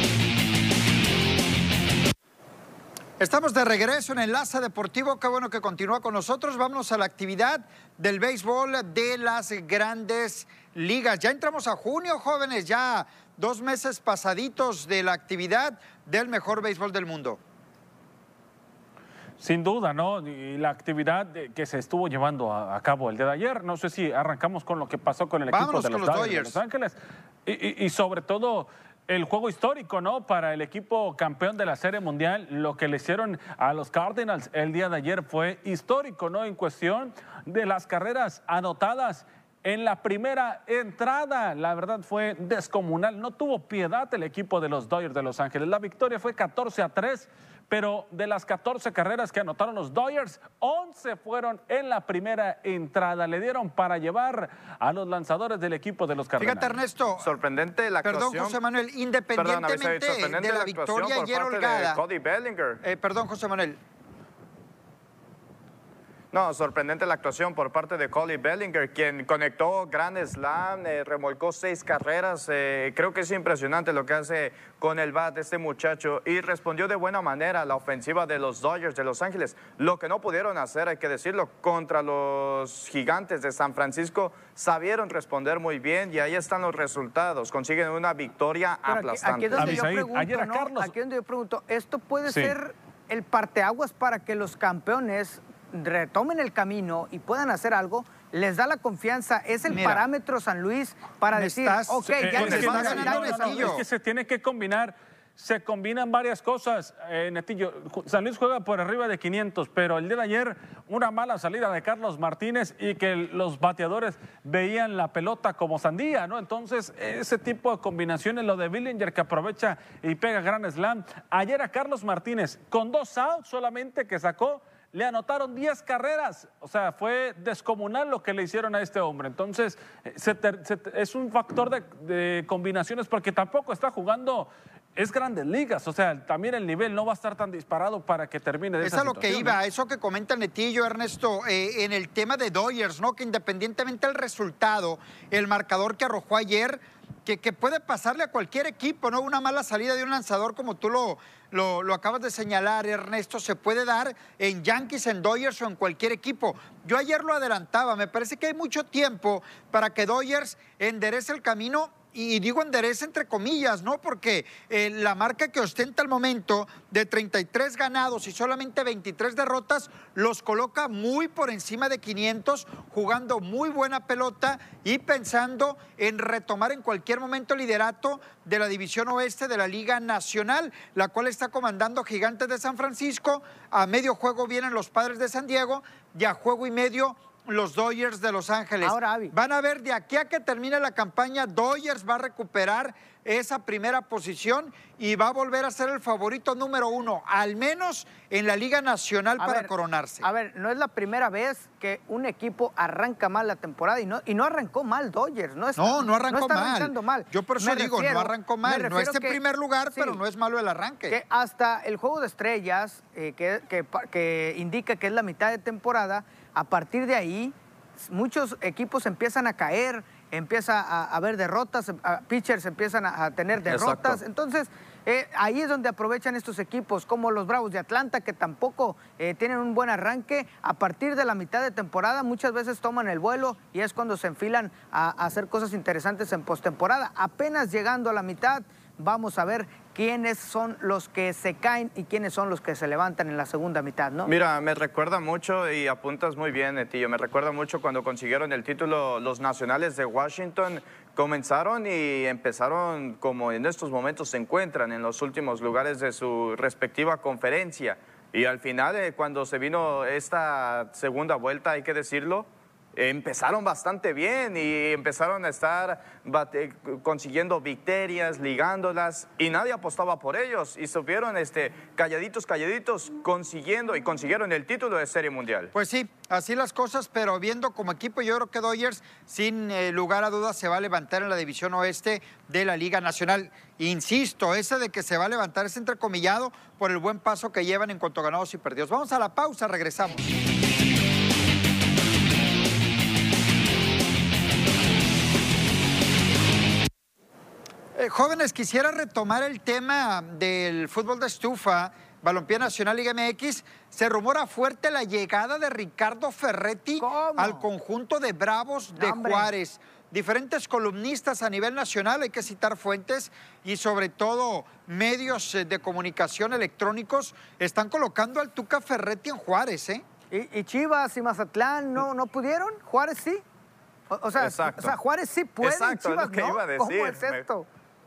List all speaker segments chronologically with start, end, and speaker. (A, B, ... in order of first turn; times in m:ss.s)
0:03.2-0:17.4 A
0:19.4-0:56.7 B
0:25.5-0:26.6 A
0:56.4-0:57.3 A
0:57.2-0:58.6 C
0:58.0-1:02.0 A
0:59.4-1:02.8 C
1:02.8-1:03.8 A
1:06.3-1:29.8 C
1:28.9-1:43.8 D
1:29.6-1:30.9 B
1:32.3-1:32.6 B
1:39.7-1:40.1 A
1:41.3-1:43.8 A
1:42.2-2:19.6 B
1:42.4-1:43.2 C
2:18.8-3:20.3 A
3:08.8-3:09.3 D
3:19.4-3:29.4 D
3:25.8-3:31.2 A
3:29.9-3:30.2 D
3:31.1-4:04.3 D
3:43.7-3:44.2 C
4:04.3-4:35.7 C
4:35.7-4:50.3 A
4:58.0-5:20.0 A
5:07.0-5:07.7 D
5:09.0-5:09.5 D
5:20.3-5:23.4 D
5:24.1-5:27.7 D
5:24.4-5:25.0 C
5:25.6-5:27.4 C